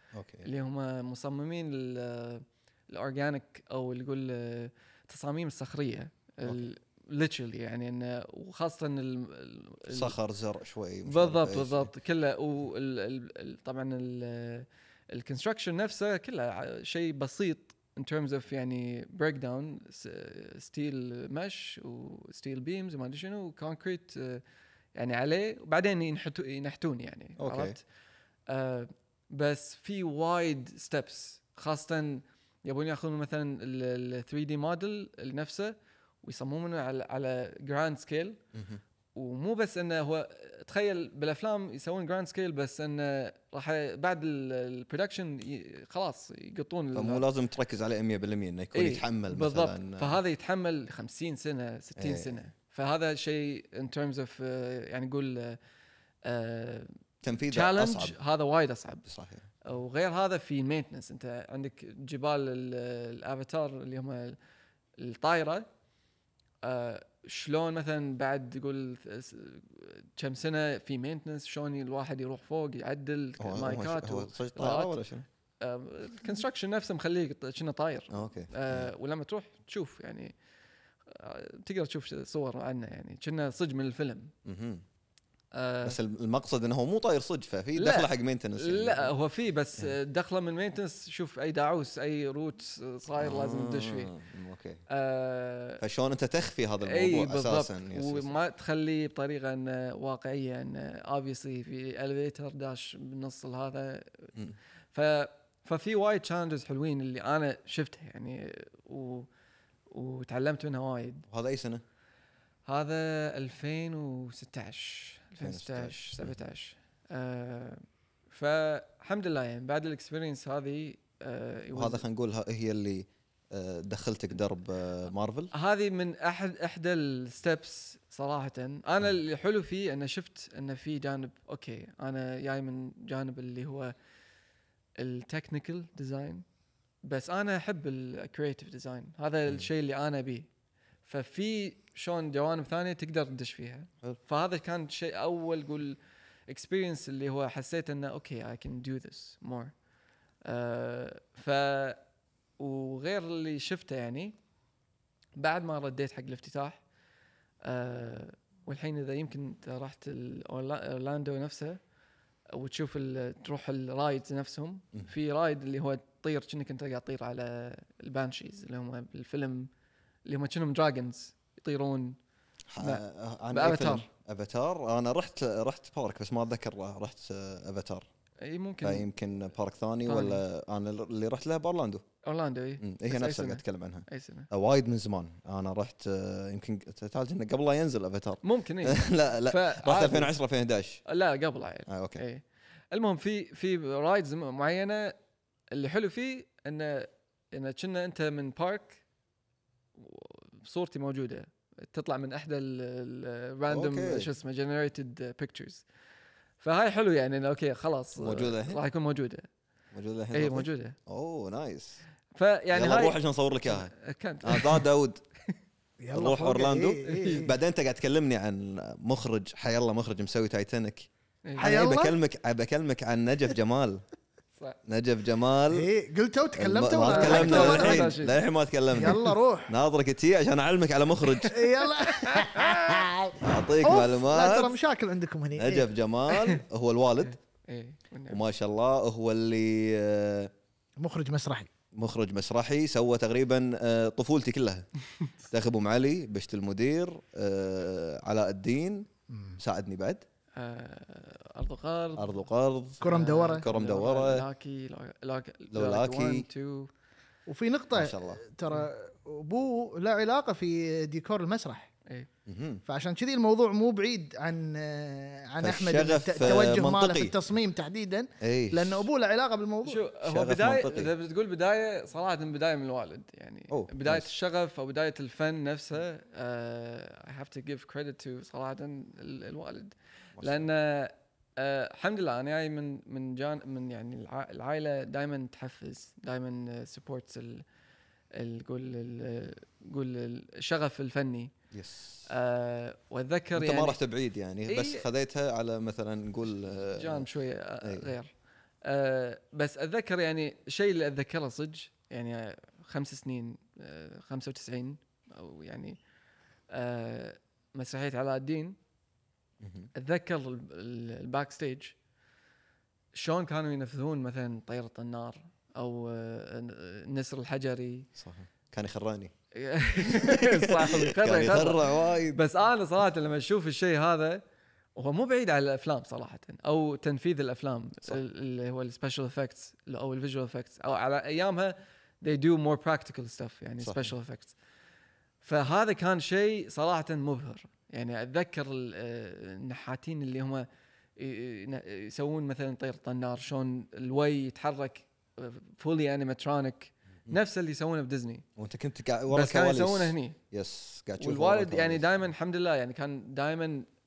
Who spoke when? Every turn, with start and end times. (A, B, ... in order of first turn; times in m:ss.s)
0:00.1-0:00.4 A
0:00.4-0:10.1 B
0:09.9-0:11.9 A
0:11.0-0:24.4 B
0:24.9-0:27.8 B
0:27.4-0:27.8 A
0:28.5-0:38.4 B
0:38.5-0:38.8 A
0:39.1-0:47.2 B
0:46.9-0:50.2 A
0:48.7-0:55.6 B
0:52.0-0:52.4 A
0:56.2-0:56.9 B
0:57.2-0:58.2 A
0:57.4-0:59.1 B
0:59.0-0:59.4 A
0:59.6-1:04.4 B
1:05.0-1:05.7 B
1:06.6-1:15.0 B
1:13.4-1:15.2 A
1:15.6-1:20.3 B
1:18.1-1:18.9 A
1:21.1-1:24.3 B
1:24.4-1:24.8 A
1:25.5-1:26.0 B
1:25.8-1:29.1 A
1:27.7-1:34.1 B
1:33.2-1:34.8 A
1:34.9-1:35.8 B
1:35.8-1:38.3 A
1:36.8-1:44.3 B
1:44.9-1:49.3 B
1:49.9-1:51.2 B
1:51.3-1:51.8 A
1:52.6-2:02.0 B
1:55.4-1:56.4 A
2:01.7-2:05.5 A
2:05.5-2:13.9 B
2:15.0-2:16.4 B
2:17.0-2:20.5 B
2:21.0-2:29.7 B
2:30.4-2:32.0 B
2:32.6-2:34.3 B
2:35.4-2:36.8 B
2:37.6-2:41.8 B
2:42.5-2:49.7 B
2:50.2-2:52.2 B
2:52.7-2:58.0 A
2:52.8-2:54.1 B
2:58.4-2:59.1 B
2:58.8-3:02.0 A
3:00.0-3:00.4 B
3:02.2-3:04.5 B
3:02.8-3:11.0 A
3:08.4-3:10.3 B
3:11.0-3:15.2 B
3:11.9-3:12.2 A
3:15.7-3:19.0 B
3:20.0-3:25.8 B
3:23.7-3:24.3 A
3:26.6-3:29.5 B
3:28.2-3:28.8 A
3:29.9-3:32.0 A
3:30.3-3:31.0 B
3:32.3-3:34.8 B
3:32.7-3:33.9 A
3:34.4-3:35.2 A
3:36.0-3:37.5 C
3:36.1-3:44.0 A
3:37.0-3:37.4 B
3:41.4-3:41.7 B
3:41.6-3:42.2 C
3:44.8-3:45.9 A
3:45.7-3:48.2 C
3:46.6-3:51.6 A
3:47.1-3:48.4 B
3:48.9-3:49.7 C
3:51.5-3:55.9 C
3:52.0-3:53.0 B
3:53.4-3:54.8 A
3:55.6-3:57.4 A
3:56.3-3:56.6 B
3:57.6-3:58.4 B
3:58.3-4:00.5 A
4:01.0-4:01.7 C
4:01.9-4:04.9 A
4:05.5-4:10.2 A
4:09.3-4:09.6 C
4:10.6-4:12.4 B
4:12.2-4:14.4 A
4:13.0-4:13.6 C
4:13.0-4:16.9 B
4:15.7-4:16.5 A
4:17.5-4:21.9 C
4:17.9-4:18.4 A
4:22.4-4:22.8 A
4:22.8-4:30.0 C
4:25.6-4:27.3 A
4:28.4-4:29.1 A
4:29.8-4:47.6 B
4:30.2-4:31.1 A
4:33.7-4:34.3 A
4:40.4-4:40.6 A
4:48.3-4:51.5 B
4:51.7-4:52.3 A
4:52.3-4:54.0 B
4:53.5-4:57.3 A
4:54.7-4:55.1 B
4:57.0-4:58.3 B
4:57.8-4:58.1 A
4:58.8-5:06.0 B
5:06.7-5:08.8 B
5:09.6-5:09.9 A
5:09.9-5:11.9 B
5:13.1-5:18.1 B
5:18.2-5:19.3 A
5:19.5-5:24.4 B
5:20.0-5:22.4 A
5:24.9-5:34.6 B
5:33.8-5:34.1 A
5:35.4-5:48.4 B
5:48.6-5:52.1 A
5:49.3-5:50.4 B
5:51.2-5:53.9 B